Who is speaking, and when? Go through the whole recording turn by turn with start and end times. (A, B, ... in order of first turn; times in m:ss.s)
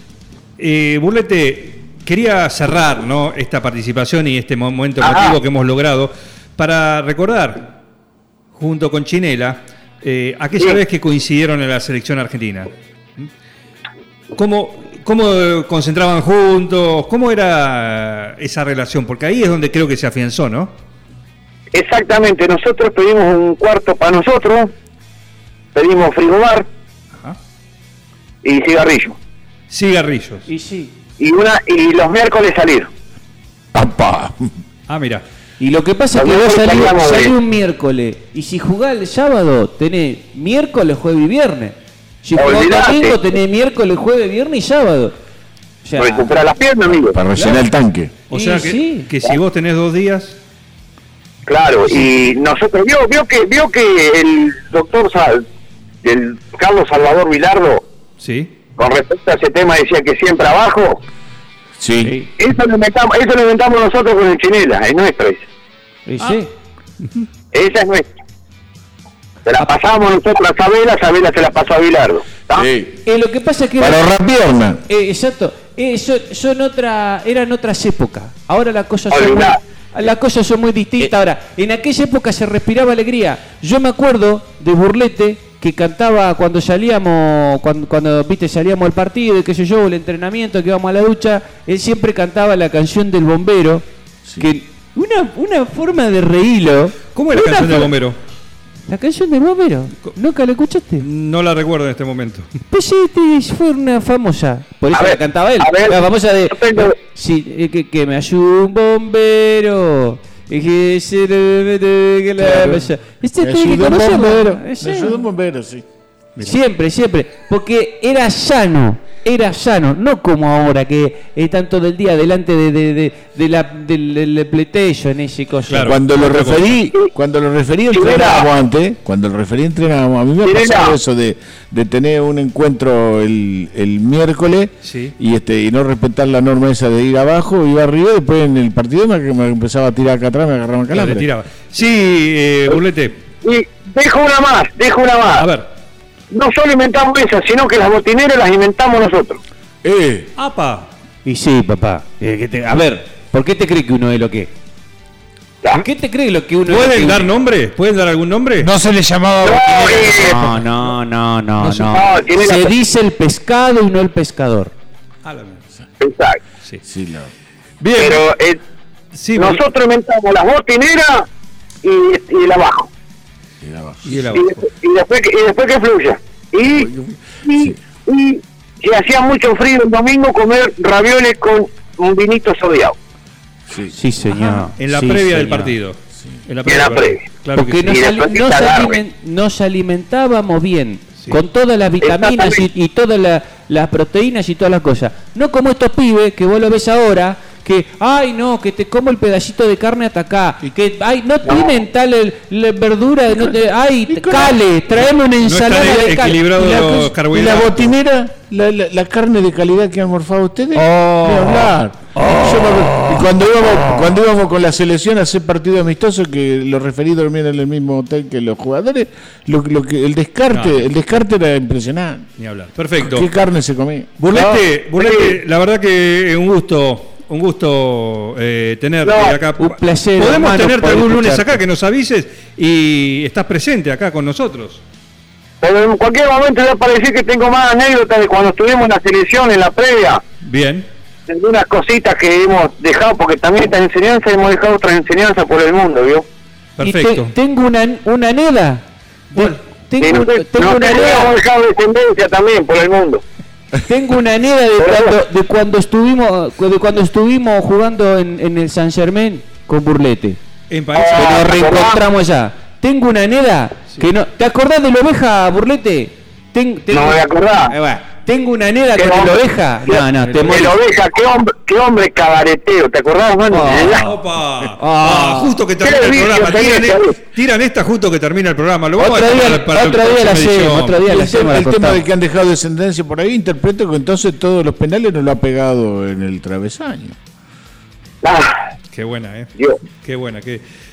0:00.6-0:07.7 A
0:05.0-0:05.4 B
0:08.5-0:13.3 A
0:14.4-0:20.7 A
0:21.7-0:24.7 B
0:25.8-0:26.7 B
0:28.4-0:29.2 B
0:29.7-0:30.5 A
0:30.5-0:30.9 C
0:31.2-0:32.9 B
0:33.7-0:34.5 D
0:34.9-0:35.2 A
0:35.6-0:45.2 C
0:36.2-0:37.4 B
0:42.4-0:43.2 B
0:45.8-0:46.4 C
0:46.0-0:47.2 B
0:47.1-0:48.1 D
0:47.4-0:47.6 C
0:48.3-0:50.4 A
0:48.3-0:49.1 C
0:51.5-0:55.4 B
0:56.0-0:57.8 B
0:58.2-0:58.5 A
0:58.8-1:01.0 B
1:01.8-1:02.2 D
1:02.0-1:02.3 C
1:02.4-1:05.4 B
1:06.1-1:06.5 C
1:07.5-1:08.1 B
1:09.4-1:12.7 B
1:12.6-1:13.0 D
1:13.1-1:14.1 C
1:13.8-1:14.8 D
1:14.9-1:33.8 C
1:19.1-1:19.6 B
1:34.4-1:37.9 C
1:37.2-1:38.2 A
1:38.9-1:41.1 C
1:41.0-1:42.5 A
1:42.7-1:55.2 C
1:44.9-1:47.0 B
1:53.4-1:55.8 D
1:56.4-2:06.0 C
2:05.7-2:06.8 A
2:05.8-2:21.3 D
2:07.9-2:08.5 B
2:10.4-2:11.0 B
2:14.8-2:15.1 A
2:20.9-2:23.2 A
2:23.4-2:25.5 B
2:25.4-2:25.7 A
2:26.3-2:29.4 B
2:29.8-2:30.3 D
2:30.4-2:30.9 A
2:31.2-2:34.5 C
2:35.7-2:37.3 C
2:36.7-2:38.7 A
2:38.6-2:40.6 E
2:39.4-2:40.5 B
2:40.1-2:44.7 C
2:41.7-2:42.7 B
2:45.2-2:45.6 A
2:46.0-2:46.4 B
2:46.8-2:47.3 D
2:47.8-2:48.2 A
2:48.0-2:48.6 B
2:49.1-2:49.6 A
2:49.4-2:51.3 B
2:51.8-2:52.9 B
2:53.6-2:54.3 D
2:54.0-2:54.7 A
2:54.3-2:56.9 B
2:56.6-2:57.8 D
2:57.4-3:03.0 B
3:03.7-3:03.9 D
3:03.9-3:05.7 C
3:04.4-3:07.9 A
3:06.7-3:07.2 B
3:07.6-3:27.1 C
3:07.8-3:09.0 B
3:12.0-3:12.6 B
3:21.5-3:21.8 B
3:25.4-3:27.9 A
3:27.3-3:42.3 D
3:40.5-3:40.8 A
3:42.4-3:43.3 A
3:43.0-3:44.1 D
3:44.2-3:54.8 A
3:44.3-3:45.4 B
3:49.0-3:49.4 B
3:49.6-3:51.6 C
3:55.6-4:00.2 B
4:00.4-4:00.9 A
4:01.3-4:06.2 B
4:06.8-4:07.3 A
4:06.8-4:11.3 C
4:09.3-4:09.6 A
4:10.0-4:13.2 B
4:13.9-4:20.4 C
4:14.8-4:15.2 B
4:20.7-4:21.4 A
4:20.9-4:22.0 B
4:21.1-4:30.8 C
4:26.9-4:27.7 B
4:29.0-4:34.1 B
4:33.5-4:34.1 C
4:34.0-4:41.0 A
4:34.8-4:35.6 C
4:35.8-4:37.2 B
4:39.0-4:42.0 C
4:41.1-4:47.2 D
4:48.2-4:48.6 B
4:48.9-4:50.6 A